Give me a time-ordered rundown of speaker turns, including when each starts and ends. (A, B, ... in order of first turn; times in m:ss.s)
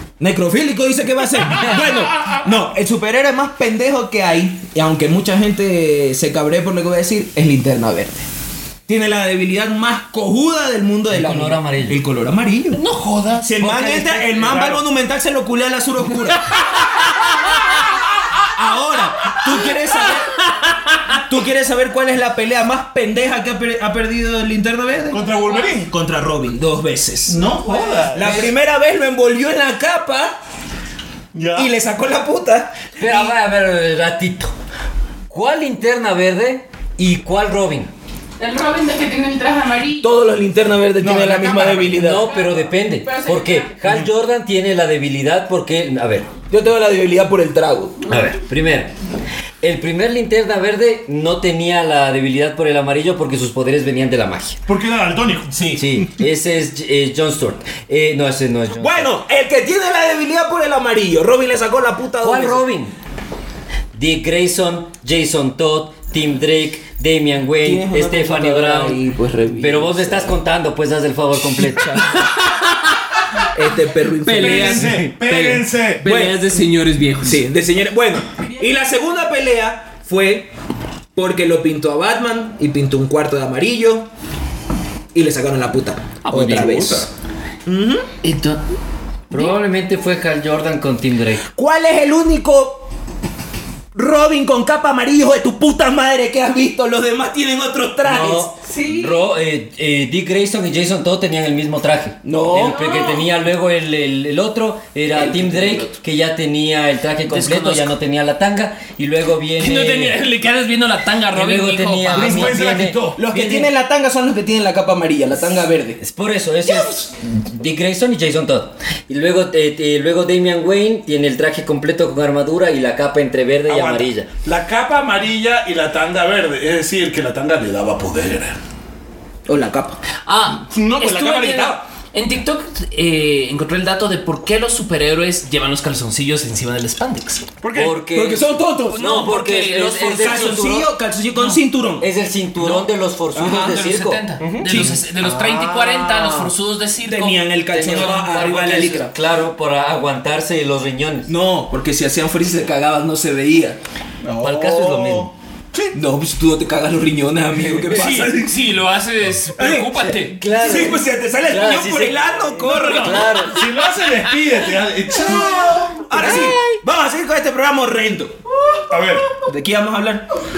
0:00.2-0:08.2 A
0:08.9-0:12.8 A
0:11.1-0:12.0 B
0:12.8-0:13.5 C
0:13.4-0:16.4 A
0:13.6-0:14.4 B
0:14.4-0:14.8 D
0:18.6-0:20.3 A
0:21.1-0:27.4 A
0:25.1-0:25.9 D
0:27.3-0:28.5 D
0:27.6-0:28.5 B
0:28.1-0:30.4 A
0:31.3-0:31.7 D
0:31.6-0:33.4 A
0:33.0-0:34.6 B
0:35.3-0:37.9 B
0:38.4-0:40.1 E
0:40.0-0:42.3 A
0:41.0-0:42.0 D
0:42.0-0:46.3 B
0:42.1-0:43.8 E
0:46.5-0:48.0 A
0:48.1-0:48.9 B
0:49.6-0:54.6 B
0:54.7-0:55.6 D
0:55.5-0:55.9 A
0:55.7-0:59.1 B
0:58.8-1:02.6 A
1:02.2-1:02.9 B
1:04.0-1:09.0 B
1:07.6-1:10.3 A
1:09.6-1:12.0 B
1:11.5-1:12.1 A
1:12.0-1:13.2 C
1:13.5-1:15.0 A
1:14.2-1:17.4 C
1:14.3-1:16.1 D
1:16.0-1:16.6 A
1:17.2-1:20.5 A
1:21.2-1:24.1 A
1:25.1-1:27.1 A
1:26.2-1:27.1 C
1:27.7-1:28.1 A
1:28.2-1:28.6 C
1:29.3-1:31.4 B
1:31.6-1:32.8 A
1:34.0-1:38.5 A
1:38.0-1:50.2 B
1:38.6-1:39.2 E
1:42.2-1:42.9 A
1:42.6-1:43.3 E
1:45.1-1:45.9 A
1:47.3-1:47.9 C
1:49.6-1:52.5 C
1:51.3-1:53.7 B
1:52.1-1:56.0 A
1:52.2-1:53.2 D
1:56.0-2:04.3 B
2:03.7-2:08.6 D
2:09.5-2:10.0 A
2:10.2-2:17.5 C
2:10.6-2:11.8 D
2:17.6-2:18.0 D
2:17.7-2:20.9 B
2:18.0-2:19.2 A
2:18.9-2:20.6 C
2:20.0-2:23.8 A
2:22.0-2:26.5 B
2:23.4-2:28.1 C
2:24.4-2:24.8 D
2:24.6-2:25.0 A
2:27.0-2:29.2 A
2:27.7-2:31.3 B
2:31.3-2:33.8 A
2:34.3-2:36.0 D
2:34.4-2:35.3 B
2:35.9-2:38.6 A
2:37.9-2:40.5 C
2:39.6-2:43.4 A
2:40.1-2:43.6 B
2:42.6-2:44.3 C
2:42.8-2:46.5 D
2:45.3-2:48.4 A
2:46.2-2:46.7 B
2:48.9-2:49.3 D
2:49.4-2:50.2 A